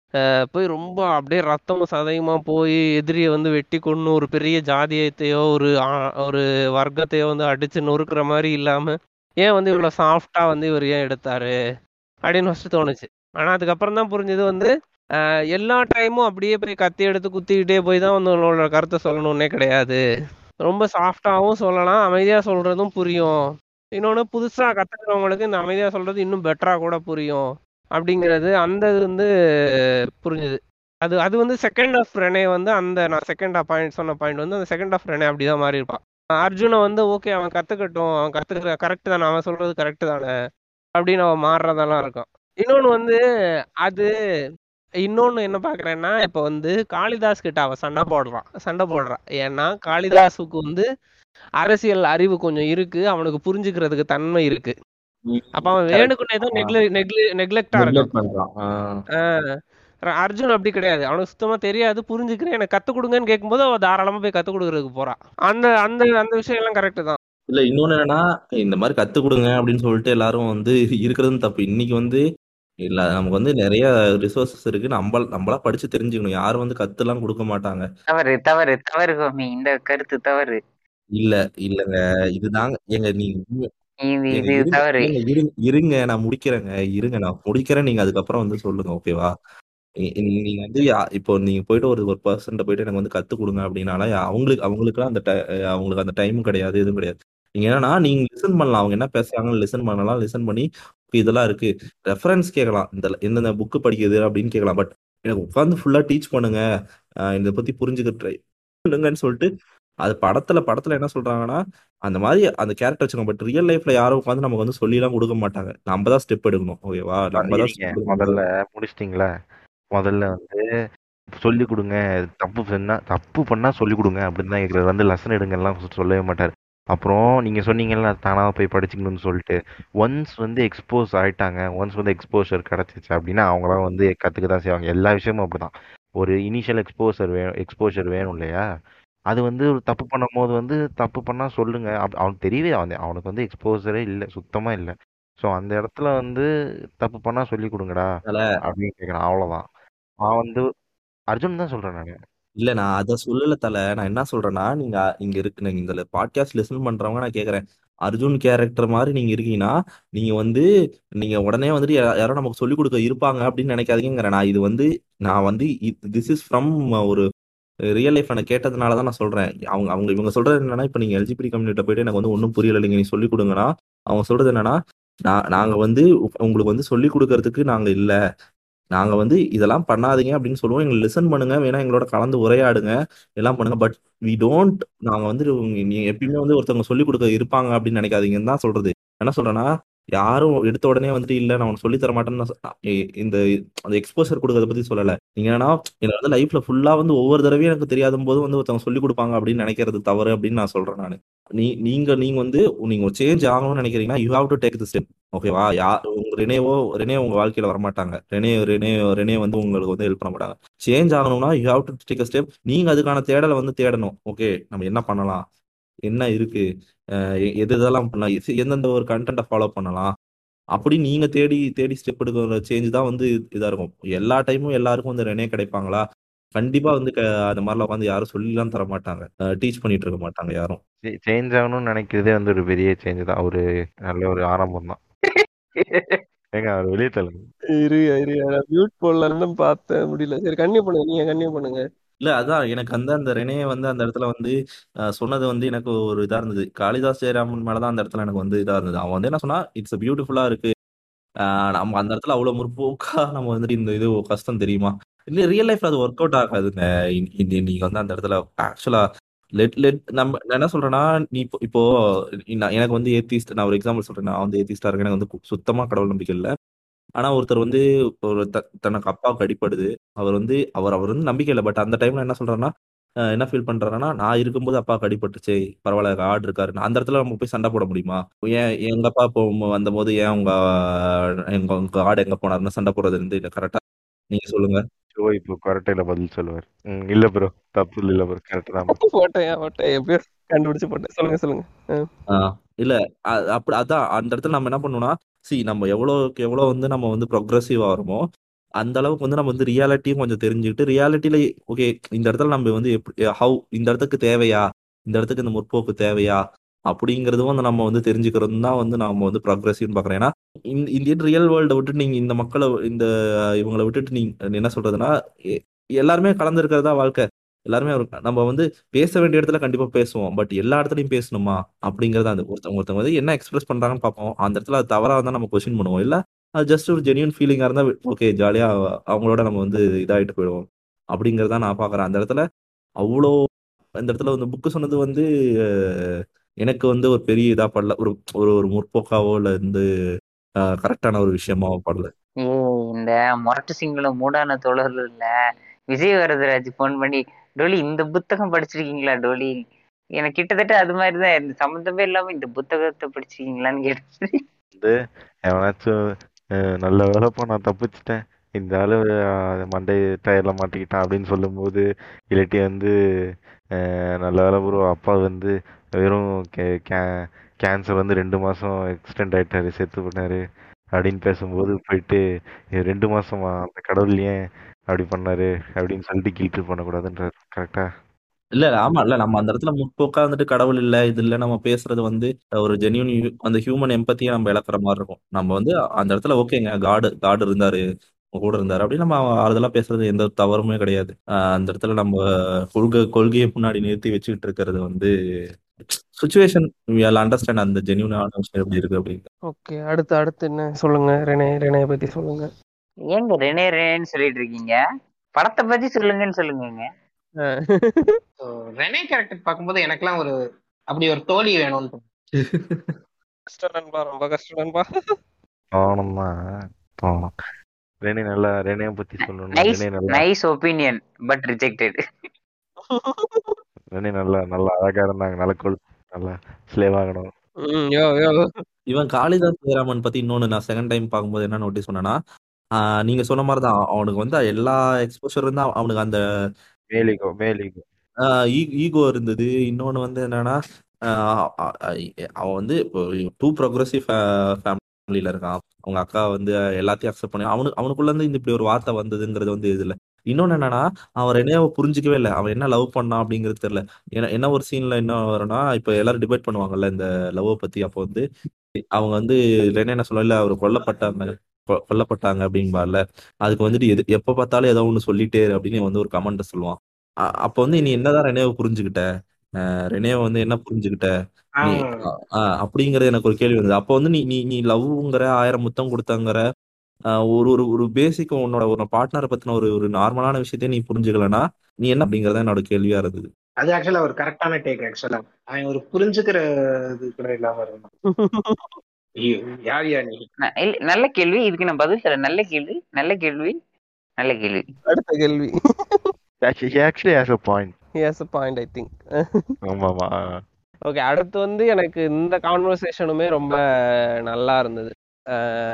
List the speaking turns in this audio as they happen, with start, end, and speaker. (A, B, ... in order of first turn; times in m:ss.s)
0:00.5-0:11.5 A
0:12.3-0:14.7 A
0:15.6-0:20.0 A
0:20.6-0:23.4 A
0:24.0-0:27.4 A
0:28.0-0:29.3 A
0:30.2-0:40.3 A
0:41.0-0:43.2 A
0:43.8-0:44.1 A
0:45.0-0:50.9 A
0:51.6-0:54.7 A
0:55.3-0:56.8 B
0:55.6-0:58.1 A
0:57.8-0:59.0 B
1:00.2-1:07.2 A
1:07.5-1:12.2 B
1:12.9-1:17.8 B
1:18.1-1:20.6 C
1:21.2-1:23.7 B
1:24.1-1:25.1 C
1:24.4-1:29.3 B
1:30.1-1:46.6 B
1:47.3-1:48.4 B
1:48.9-1:49.5 B
1:50.0-1:58.4 B
1:57.4-1:59.3 D
2:00.0-2:00.6 D
2:01.4-2:18.6 D
2:19.3-2:26.5 D
2:27.0-2:29.7 D
2:30.3-2:30.6 D
2:31.3-2:32.2 D
2:32.6-2:40.6 B
2:41.2-2:47.2 B
2:48.0-2:58.2 B
2:59.0-3:12.5 B
3:13.9-3:35.4 B
3:36.1-3:36.6 B
3:37.6-3:40.1 B
3:40.8-3:46.0 B
3:46.6-3:50.8 B
3:51.1-3:55.0 D
3:56.6-3:57.4 D
3:57.8-4:01.8 A
4:02.2-4:04.6 B
4:05.2-4:10.7 B
4:11.7-4:19.0 B
4:19.6-4:21.8 B
4:22.5-4:26.5 B
4:27.2-4:32.7 B
4:33.3-4:40.5 B
4:41.5-4:43.8 B
4:44.3-4:44.8 B
4:45.2-4:49.0 D
4:48.9-4:52.1 A
4:52.3-4:53.0 B
4:53.6-4:58.2 B
4:58.8-5:13.1 B
5:13.6-5:15.1 B
5:16.0-5:32.4 B
5:33.0-5:33.3 B
5:34.0-5:35.2 B
5:36.6-5:39.8 B
5:40.8-5:42.1 B
5:42.5-5:45.3 C
5:45.9-5:49.5 C
5:50.2-5:54.4 C
5:55.5-5:56.0 D
5:56.8-5:59.1 D
5:59.6-6:02.9 D
6:03.8-6:07.1 D
6:07.6-6:10.4 D
6:11.0-6:12.2 D
6:12.8-6:14.4 D
6:14.9-6:17.9 D
6:18.6-6:27.8 B
6:28.4-6:32.2 B
6:32.7-6:35.1 B
6:36.2-6:39.2 B
6:39.5-6:42.5 A
6:43.1-6:44.8 C
6:45.4-6:46.8 C
6:47.4-6:48.2 A
6:48.4-6:50.3 E
6:50.9-6:52.0 E
6:52.4-6:53.0 B
6:53.5-6:54.8 A
6:55.7-6:56.3 D
6:57.0-6:57.3 D
6:58.0-7:00.2 D
6:59.6-7:02.0 C
7:02.9-7:03.6 A
7:03.9-7:07.3 D
7:07.7-7:08.5 A
7:08.9-7:12.2 B
7:13.0-7:16.2 B
7:16.9-7:17.8 D
7:18.2-7:20.6 B
7:22.4-7:22.8 B
7:23.4-7:38.2 B
7:39.0-7:46.8 B
7:47.5-7:49.0 B
7:49.9-7:51.1 B
7:51.6-7:52.1 E
7:52.6-7:56.4 B
7:57.4-8:03.3 B
8:03.6-8:06.4 E
8:07.0-8:07.9 E
8:08.1-8:08.8 A
8:09.2-8:10.3 E
8:10.6-8:13.6 C
8:14.2-8:14.6 C
8:14.9-8:16.1 A
8:16.4-8:17.8 D
8:18.0-8:19.5 A
8:19.7-8:20.1 D
8:20.9-8:23.6 A
8:24.3-8:25.4 A